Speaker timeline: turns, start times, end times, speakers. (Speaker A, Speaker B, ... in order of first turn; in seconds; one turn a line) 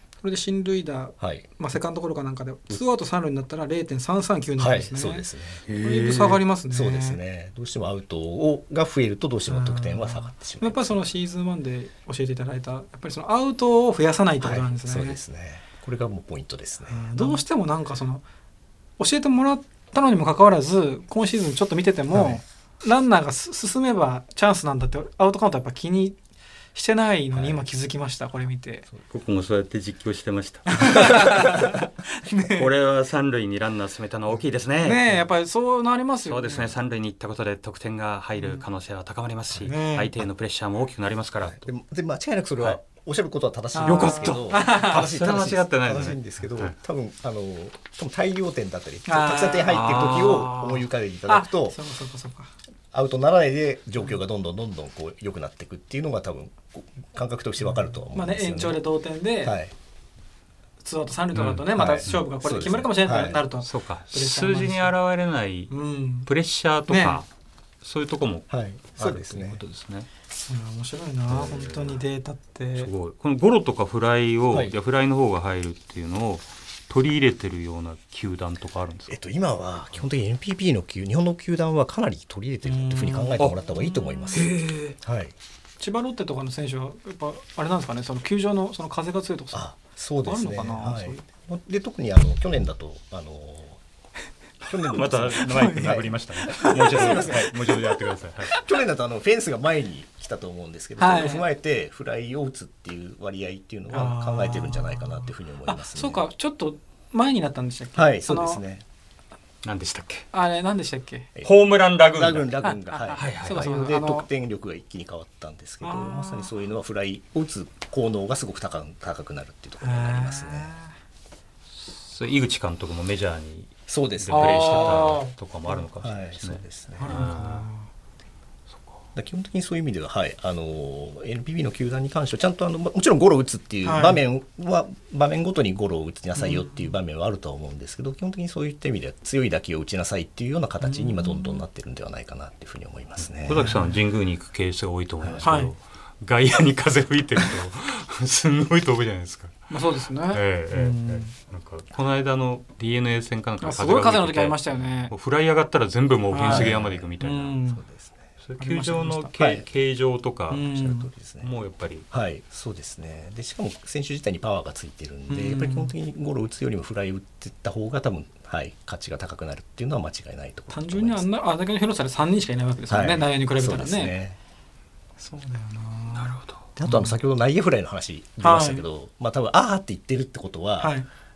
Speaker A: 0.2-7.2
Speaker B: 1.2-1.5
Speaker B: 4.6-5.6
Speaker C: 5.7-6.4
Speaker B: 6.7-11.0
Speaker A: 9.5-15.2
Speaker B: 14.4-17.4
Speaker A: 16.9-18.2
Speaker A: 19.0-26.2
Speaker B: 22.1-22.4
Speaker A: 26.7-28.9
Speaker B: 27.3-27.6
Speaker C: 29.1-31.7
Speaker A: 30.7-32.7
Speaker C: 32.4-35.1
Speaker A: 34.8-36.7
Speaker C: 36.2-41.7
Speaker A: 39.6-40.1
Speaker B: 41.5-51.8
Speaker A: 43.7-45.0
Speaker C: 43.8-46.7
Speaker A: 49.1-50.3
Speaker C: 49.7-50.8
Speaker A: 51.3-52.5
Speaker B: 52.9-58.8
Speaker A: 58.1-59.6
Speaker B: 59.4-59.7
Speaker A: 60.8-64.9
Speaker C: 61.3-62.2
Speaker B: 61.7-63.4
Speaker C: 63.6-65.7
Speaker A: 65.7-66.3
Speaker C: 66.2-67.3
Speaker A: 66.9-67.2
Speaker C: 67.8-70.1
Speaker B: 68.5-69.6
Speaker A: 70.5-72.9
Speaker C: 71.3-72.0
Speaker C: 72.8-79.2
Speaker B: 79.1-85.3
Speaker A: 82.6-84.4
Speaker C: 84.3-85.0
Speaker A: 85.8-91.2
Speaker B: 89.5-93.8
Speaker B: 94.6-97.5
Speaker C: 94.9-98.6
Speaker A: 95.4-97.8
Speaker B: 98.5-106.2
Speaker A: 101.0-101.4
Speaker A: 103.9-108.6
Speaker B: 108.0-108.8
Speaker C: 109.6-110.3
Speaker A: 110.3-111.3
Speaker C: 111.4-112.5
Speaker B: 112.1-120.7
Speaker A: 112.6-114.3
Speaker C: 113.1-113.7
Speaker A: 115.8-116.5
Speaker A: 119.8-120.9
Speaker C: 121.8-127.7
Speaker B: 123.9-125.2
Speaker A: 124.3-125.8
Speaker B: 126.0-127.2
Speaker A: 127.0-127.9
Speaker C: 128.7-129.0
Speaker B: 129.1-143.7
Speaker A: 133.8-134.2
Speaker A: 136.4-136.8
Speaker A: 140.8-141.6
Speaker C: 143.4-149.7
Speaker A: 143.6-144.0
Speaker A: 145.4-145.7
Speaker A: 149.7-151.3
Speaker C: 150.3-157.6
Speaker A: 153.6-155.1
Speaker A: 156.3-157.8
Speaker B: 156.4-157.1
Speaker B: 157.7-158.3
Speaker C: 158.4-160.7
Speaker A: 158.6-159.3
Speaker B: 159.4-159.7
Speaker A: 160.5-161.1
Speaker B: 160.7-161.5
Speaker C: 161.4-162.1
Speaker B: 162.1-171.2
Speaker A: 165.3-165.9
Speaker A: 170.7-174.1
Speaker B: 172.9-174.4
Speaker A: 175.2-177.2
Speaker C: 176.1-176.6
Speaker B: 176.8-180.9
Speaker A: 178.4-178.8
Speaker A: 180.8-181.1